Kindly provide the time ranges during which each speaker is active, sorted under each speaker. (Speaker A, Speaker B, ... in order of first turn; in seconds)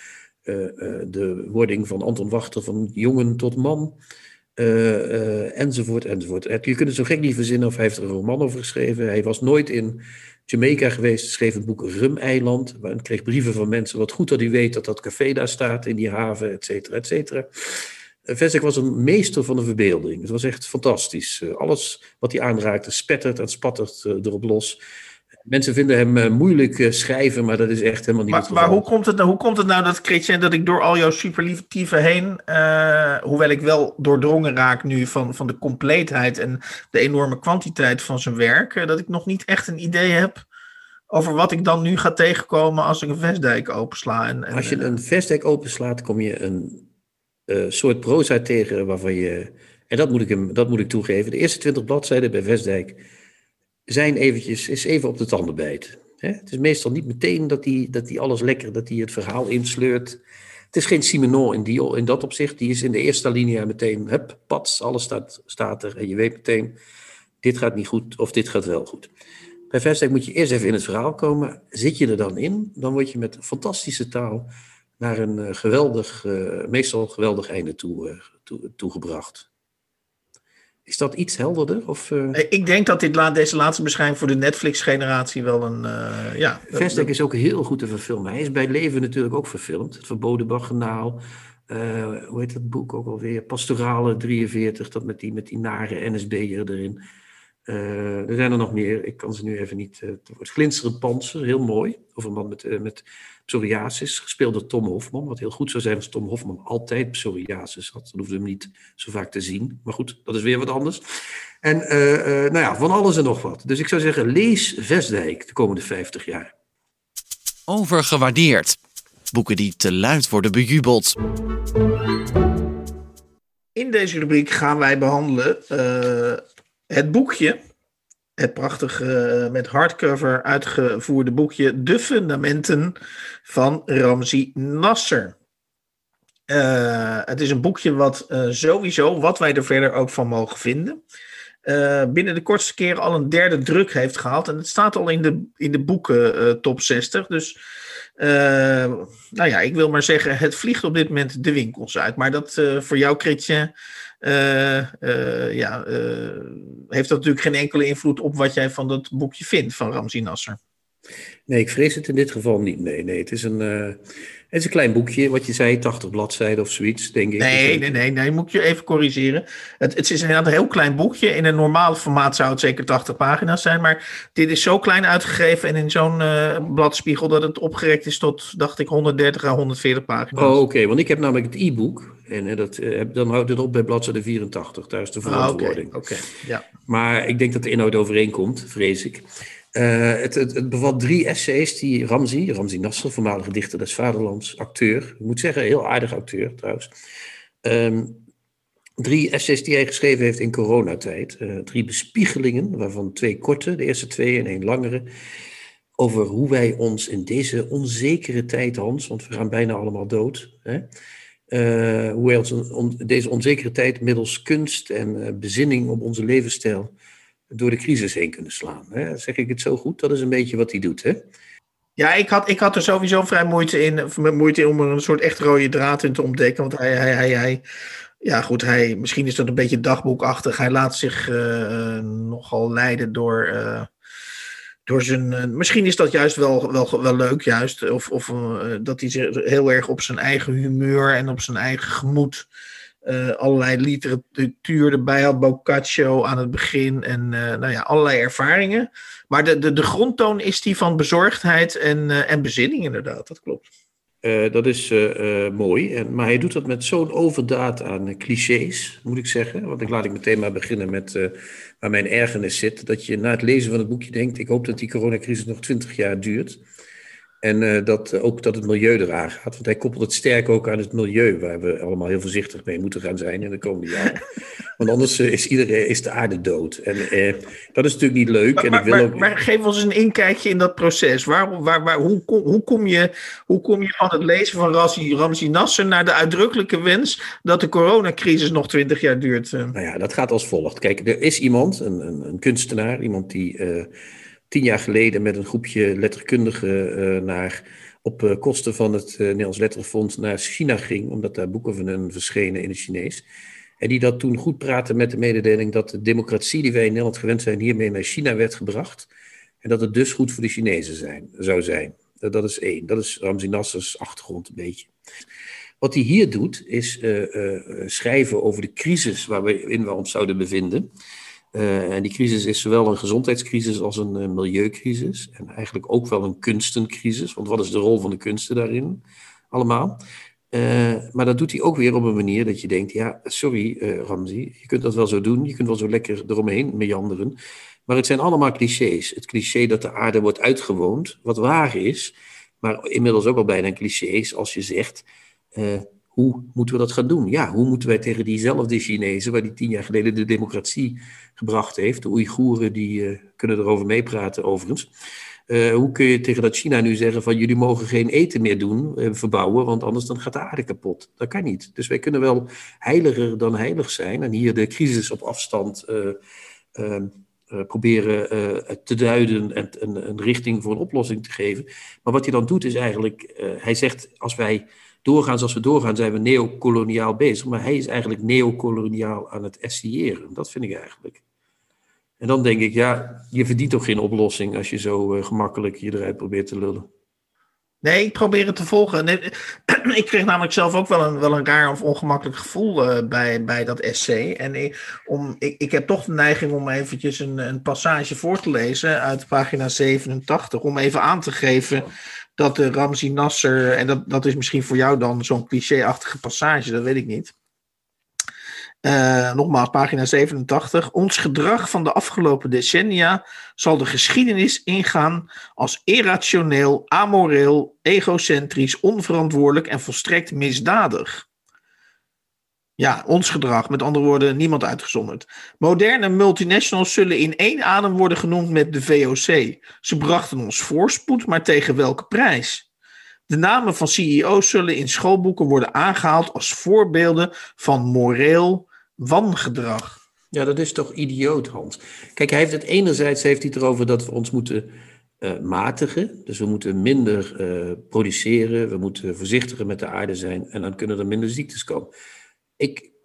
Speaker A: 0.4-4.0, 4.6-24.8, 25.4-28.8, 44.5-46.9, 47.5-53.0, 53.9-66.8, 67.4-69.1, 69.7-79.5, 80.8-82.4, 86.7-97.0, 97.7-111.0, 111.6-116.5, 161.5-167.9, 180.3-186.0, 186.8-196.9, 197.6-198.2, 199.0-205.1, 206.0-210.8, 211.5-216.9, 217.5-221.2, 254.2-266.6, 267.4-274.2, 274.8-279.3, 289.7-293.9, 294.5-303.2, 303.8-309.1, 309.6-314.9, 315.8-320.9, 321.5-330.0, 330.5-354.9, 355.5-366.2, 366.7-381.2, 382.2-386.9, 440.3-444.7, 445.2-451.9, 452.6-452.9
Speaker B: 28.3-40.4, 41.1-44.9, 82.3-87.1, 123.8-127.6, 128.4-135.3, 136.5-141.0, 141.7-147.6, 148.2-153.7, 154.2-160.6, 167.4-180.6, 185.2-186.6, 222.0-227.6, 228.2-233.9, 234.8-242.5, 243.0-253.7, 278.6-289.8, 387.8-401.9, 402.4-407.3, 408.8-421.2, 422.8-432.6, 433.3-440.0
Speaker C: 117.7-118.8, 119.3-121.2